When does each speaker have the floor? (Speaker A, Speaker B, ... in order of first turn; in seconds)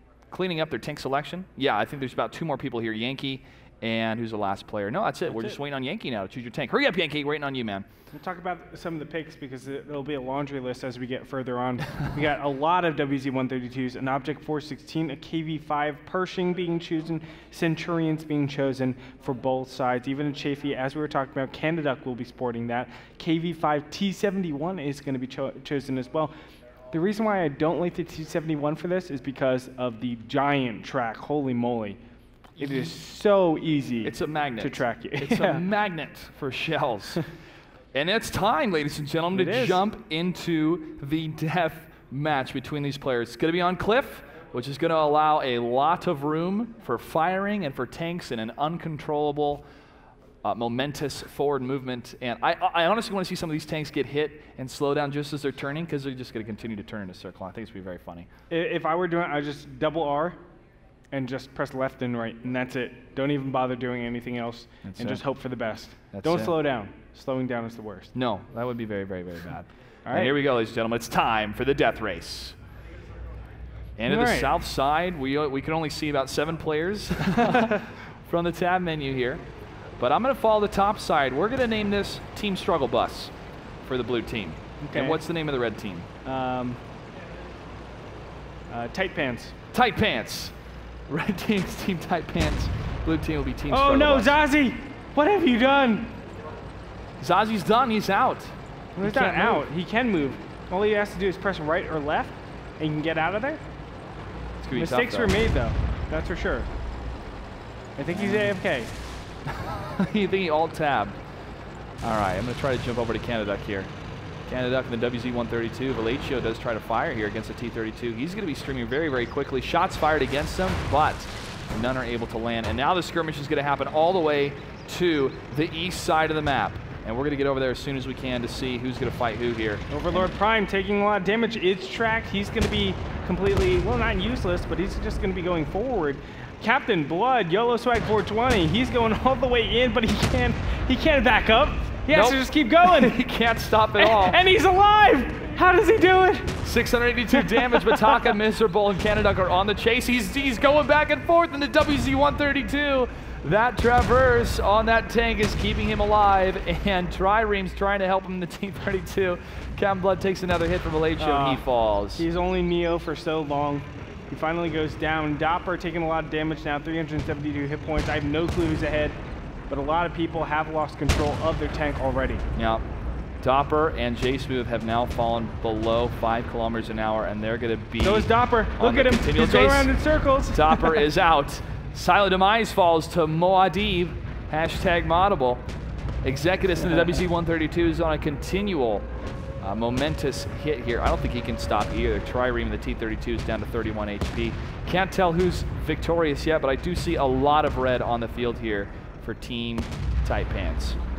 Speaker A: 0.3-7.8, 32.6-32.9, 34.0-37.2, 37.9-49.6, 50.4-58.3, 64.8-65.2, 66.1-66.5, 68.1-72.5, 74.0-79.4, 80.0-86.1, 89.7-90.5, 91.1-94.3, 97.2-99.6, 104.6-105.3, 108.1-108.5, 109.6-111.2, 112.0-113.9, 114.5-130.3, 142.1-144.4, 146.6-162.2, 172.5-172.8, 173.4-179.9, 180.5-185.7, 186.2-189.1, 189.6-201.0
Speaker B: 5.3-5.5, 8.1-26.3, 26.9-32.0, 32.6-35.6, 39.3-39.8, 58.5-60.4, 61.1-68.1, 70.0-70.3, 74.0-74.5, 84.8-85.2, 86.2-86.8, 88.7-89.5, 93.7-96.2, 99.0-103.6, 104.7-106.7, 108.0-108.9, 129.9-143.2, 144.0-146.6, 147.3-148.3, 161.2-161.6, 162.2-172.4, 178.0-181.1, 186.8-187.2